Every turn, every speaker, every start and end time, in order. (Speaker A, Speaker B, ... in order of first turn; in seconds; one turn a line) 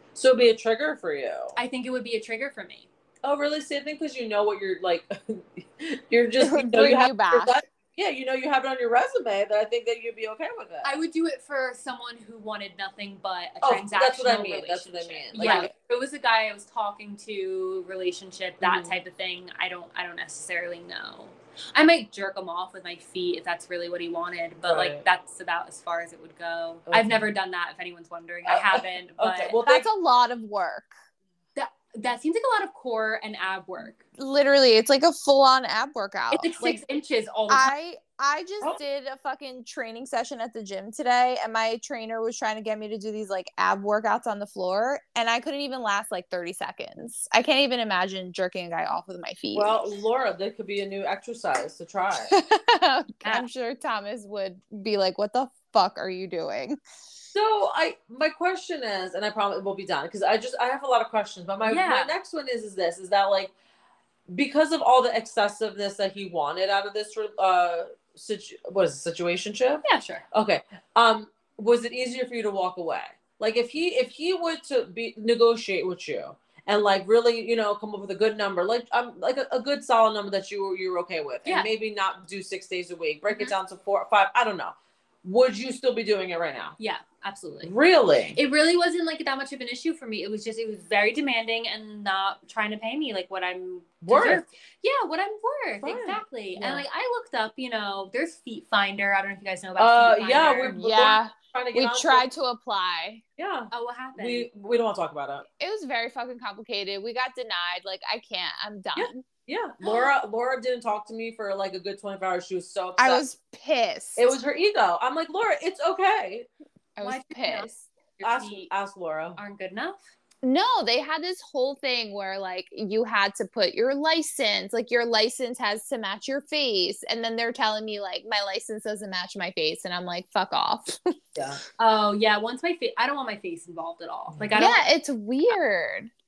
Speaker A: 0.1-1.6
Speaker B: 1.6-2.9
Speaker A: 3.2-10.9
Speaker C: 6.4-7.6
Speaker B: 10.8-29.6
Speaker A: 13.6-15.7
Speaker C: 15.4-15.7
Speaker A: 18.6-19.0
Speaker A: 24.6-25.0
Speaker A: 26.9-27.2
Speaker A: 28.5-29.9
Speaker C: 29.6-30.9
Speaker B: 31.6-34.0
Speaker C: 34.2-36.8
Speaker B: 36.3-37.7
Speaker C: 37.5-49.8
Speaker A: 49.5-52.4
Speaker C: 52.3-56.8
Speaker A: 57.3-63.5
Speaker B: 61.6-62.1
Speaker A: 64.3-86.8
Speaker B: 69.8-70.2
Speaker B: 83.3-83.5
Speaker B: 86.8-87.7
Speaker A: 87.6-88.4
Speaker B: 88.4-100.8
Speaker A: 94.0-94.4
Speaker A: 95.8-96.8
Speaker A: 99.8-102.2
Speaker C: 100.7-103.2
Speaker A: 103.4-105.4
Speaker B: 103.7-104.5
Speaker C: 105.6-109.2
Speaker A: 109.0-113.2
Speaker C: 113.0-114.3
Speaker A: 114.2-116.5
Speaker C: 117.0-117.9
Speaker B: 117.0-118.7
Speaker A: 118.2-119.4
Speaker B: 119.4-120.0
Speaker C: 120.4-131.1
Speaker B: 131.8-134.8
Speaker A: 134.3-134.6
Speaker C: 134.6-136.1